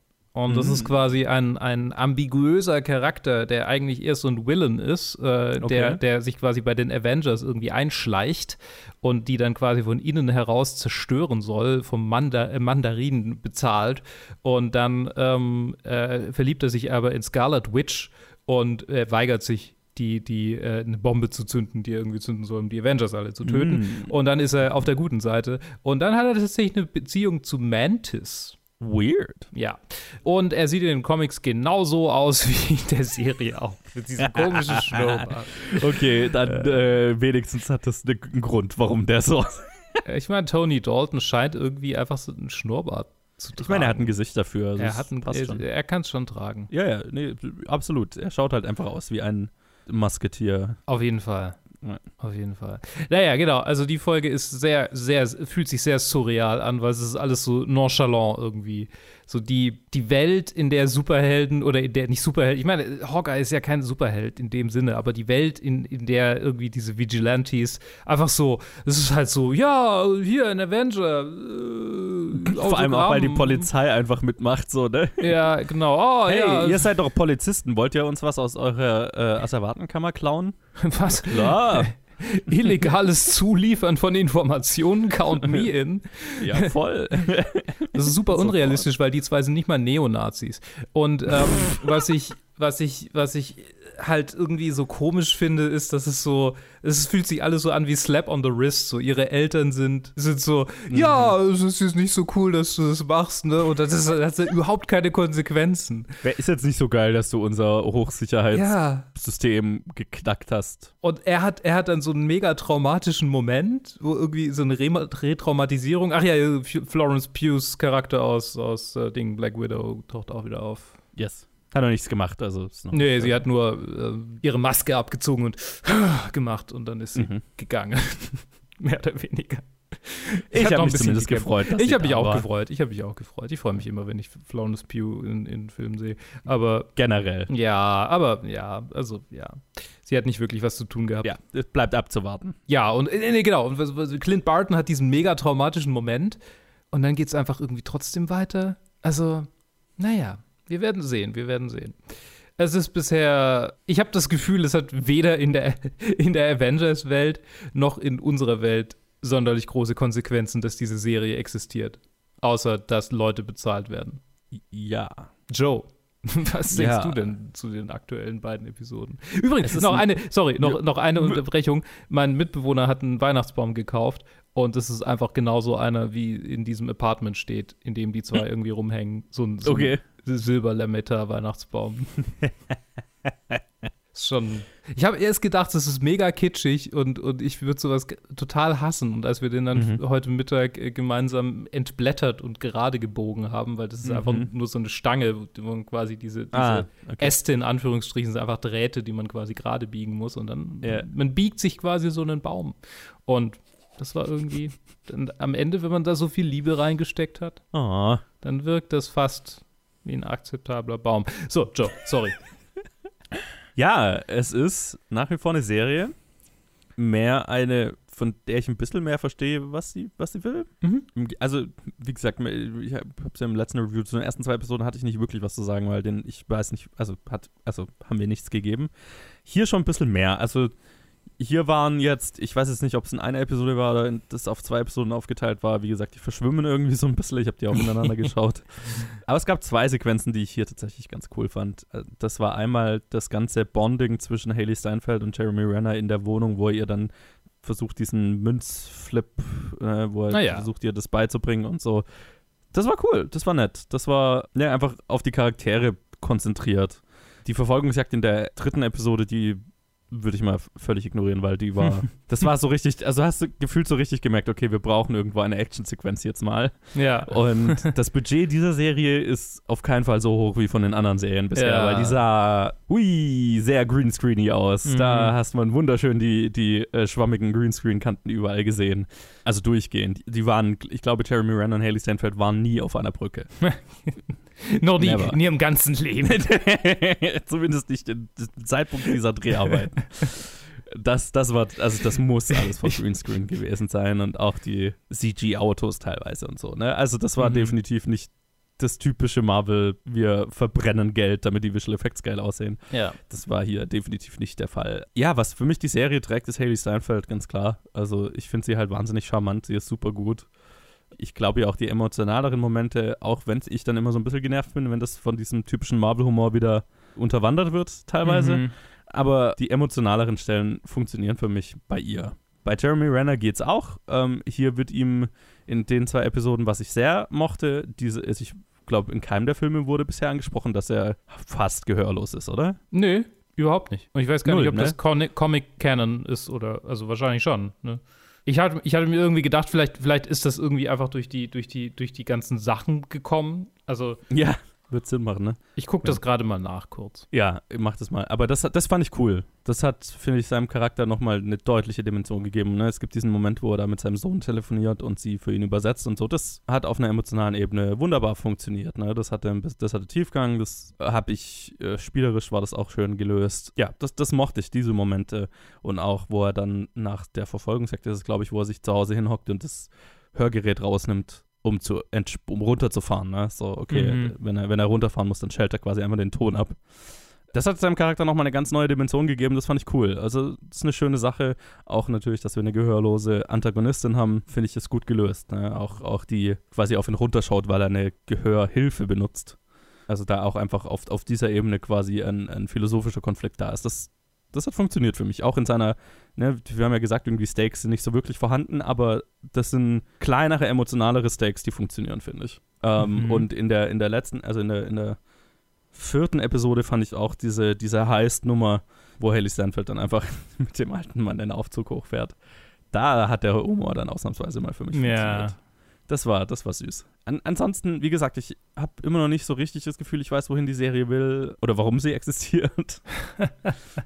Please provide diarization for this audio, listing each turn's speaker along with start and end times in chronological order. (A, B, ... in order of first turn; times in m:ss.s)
0:00.3-0:28.6 A
0:00.5-0:00.9 B
0:05.6-0:06.0 B
0:23.4-0:24.1 B
0:28.8-0:29.5 B
0:29.5-0:36.8 A
0:34.2-0:40.0 B
0:40.0-0:44.1 A
0:43.6-0:45.6 B
0:44.8-0:46.7 A
0:46.7-0:50.8 B
0:50.9-0:51.6 A
0:52.2-1:13.7 A
1:12.4-1:15.5 B
1:15.2-1:16.9 A
1:16.3-1:21.9 B
1:20.8-1:26.7 A
1:25.4-1:25.7 B
1:26.4-1:28.9 B
1:27.9-1:46.1 A
1:40.9-1:41.3 B
1:46.2-1:50.9 B
1:48.5-1:49.1 A
1:51.0-2:01.0 A
2:01.2-2:03.4 B
2:02.9-2:16.9 A
2:07.2-2:07.4 B
2:10.5-2:12.5 B
2:17.0-2:17.5 B
2:17.5-2:21.4 A
2:21.2-2:22.6 B
2:22.7-2:26.4 A
2:26.9-2:32.0 A
2:32.6-2:44.2 A
2:44.7-2:45.3 B
2:45.5-3:02.3 A
2:46.7-2:47.3 B
2:49.6-2:51.4 B
2:59.6-3:00.0 B
3:04.1-3:27.6 A
3:09.7-3:10.0 B
3:14.0-3:14.5 B
3:16.5-3:17.4 B
3:20.8-3:21.1 B
3:27.7-3:28.2 B
3:28.4-3:32.4 A
3:33.8-3:36.1 B
3:37.0-3:48.9 B
3:40.8-3:41.1 A
3:49.4-3:50.7 B
3:51.4-4:12.0 B
4:10.3-4:10.7 A
4:12.7-4:43.7 B
4:26.9-4:27.9 A
4:31.6-4:32.2 A
4:34.8-4:35.3 A
4:43.6-4:46.4 A
4:45.0-4:45.4 B
4:46.2-5:10.5 B
4:52.6-4:52.9 A
4:57.4-4:57.8 A
5:02.9-5:03.2 A
5:11.2-5:32.8 B
5:18.2-5:18.7 A
5:32.9-5:44.2 A
5:34.4-5:35.0 B
5:44.3-5:46.2 B
5:45.8-5:47.3 A
5:47.3-6:16.8 B
6:13.9-6:14.4 A
6:17.5-6:29.6 B
6:30.1-6:45.2 B
6:43.0-6:43.5 A
6:45.9-6:52.4 B
6:52.9-6:55.6 B
6:54.9-6:55.6 A
6:56.1-7:03.1 B
7:03.4-7:03.7 A